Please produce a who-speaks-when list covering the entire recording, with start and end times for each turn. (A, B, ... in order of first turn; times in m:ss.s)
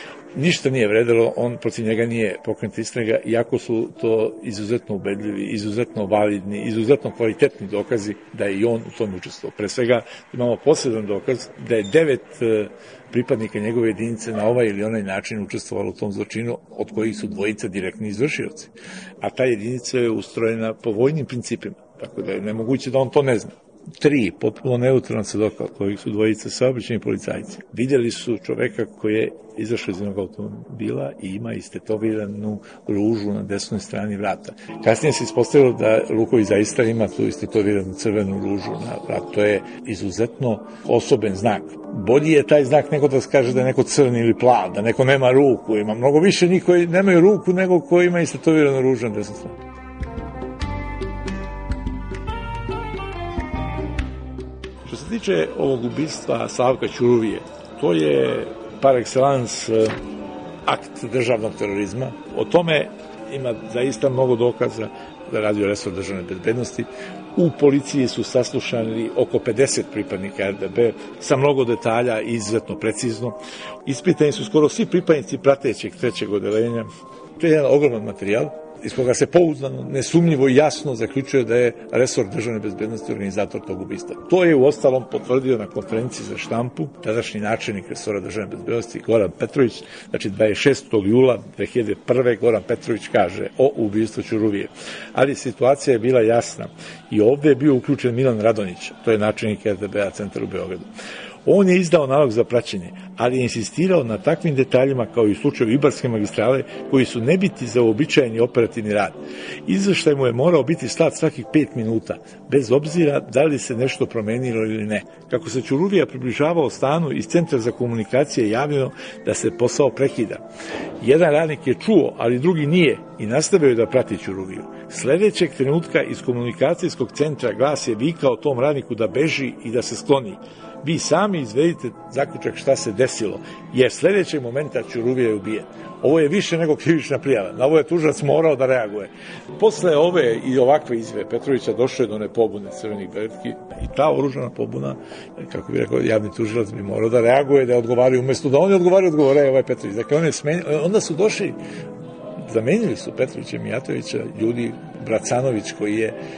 0:00.3-0:49.6 A
0:54.8-1:00.0 A
1:00.6-1:40.9 A
1:41.4-1:49.2 A
1:49.7-2:00.4 A
2:01.0-2:31.6 A
2:32.4-2:36.2 A